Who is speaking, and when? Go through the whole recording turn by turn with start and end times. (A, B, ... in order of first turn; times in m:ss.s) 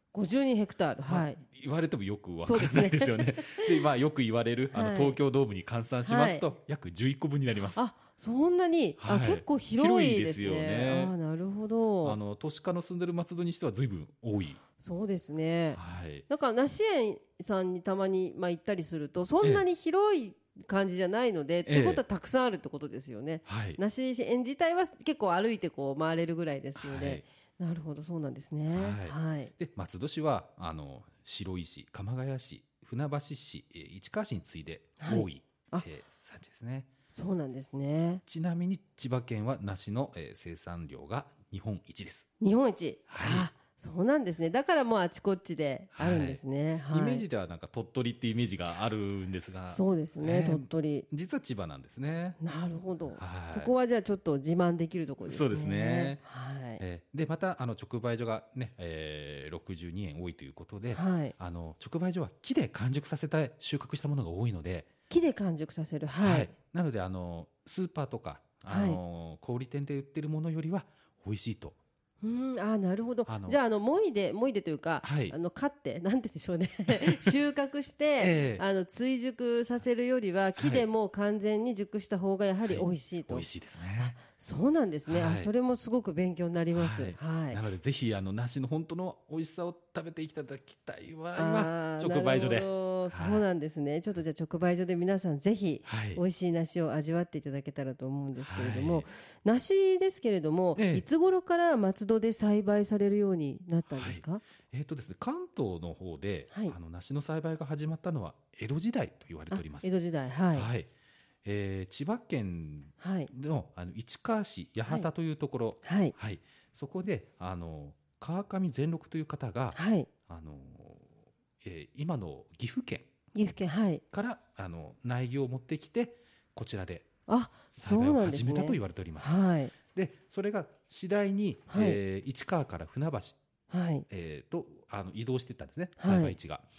0:00.1-0:01.4 A
0:01.1-0:07.8 B
0:02.4-0:03.8 A
0:04.7-0:05.2 A
0:06.0-0:06.4 A
0:07.8-0:12.2 A
0:09.0-0:11.2 B
0:12.0-0:14.6 B
0:14.8-0:29.5 A
0:15.8-0:16.3 B
0:21.7-0:22.0 B
0:23.5-0:23.8 B
0:26.8-0:27.2 B
0:28.7-0:36.9 B
0:35.0-0:35.9 A
0:37.1-0:38.2 A
0:38.2-0:42.3 B
0:42.4-0:47.2 A
0:43.1-0:43.5 B
0:46.0-0:52.4 B
0:49.7-0:51.1 A
0:52.4-0:56.8 A
0:53.2-0:53.7 B
0:55.2-0:56.2 B
0:56.8-1:04.9 B
1:00.9-1:01.3 A
1:05.1-1:06.5 A
1:06.2-1:11.8 B
1:08.7-1:09.0 A
1:12.2-1:23.5 A
1:13.3-1:13.6 B
1:15.0-1:15.4 B
1:16.9-1:17.3 B
1:18.2-1:18.6 B
1:20.6-1:20.9 B
1:22.7-1:24.2 B
1:24.0-1:27.6 A
1:25.1-1:25.5 B
1:26.7-1:33.4 B
1:31.4-1:44.4 A
1:35.9-1:36.2 B
1:38.4-1:39.1 B
1:40.8-1:41.0 B
1:43.9-1:49.9 B
1:49.5-1:50.7 A
1:50.5-1:50.9 B
1:51.4-2:03.1 B
1:53.0-1:53.3 A
1:55.8-1:56.1 A
1:59.8-2:00.1 A
2:03.4-2:04.0 A
2:04.1-2:07.1 B
2:07.3-2:09.7 A
2:07.7-2:13.4 B
2:11.7-2:12.0 A
2:13.7-2:14.1 A
2:14.1-2:16.6 B
2:16.0-2:16.4 A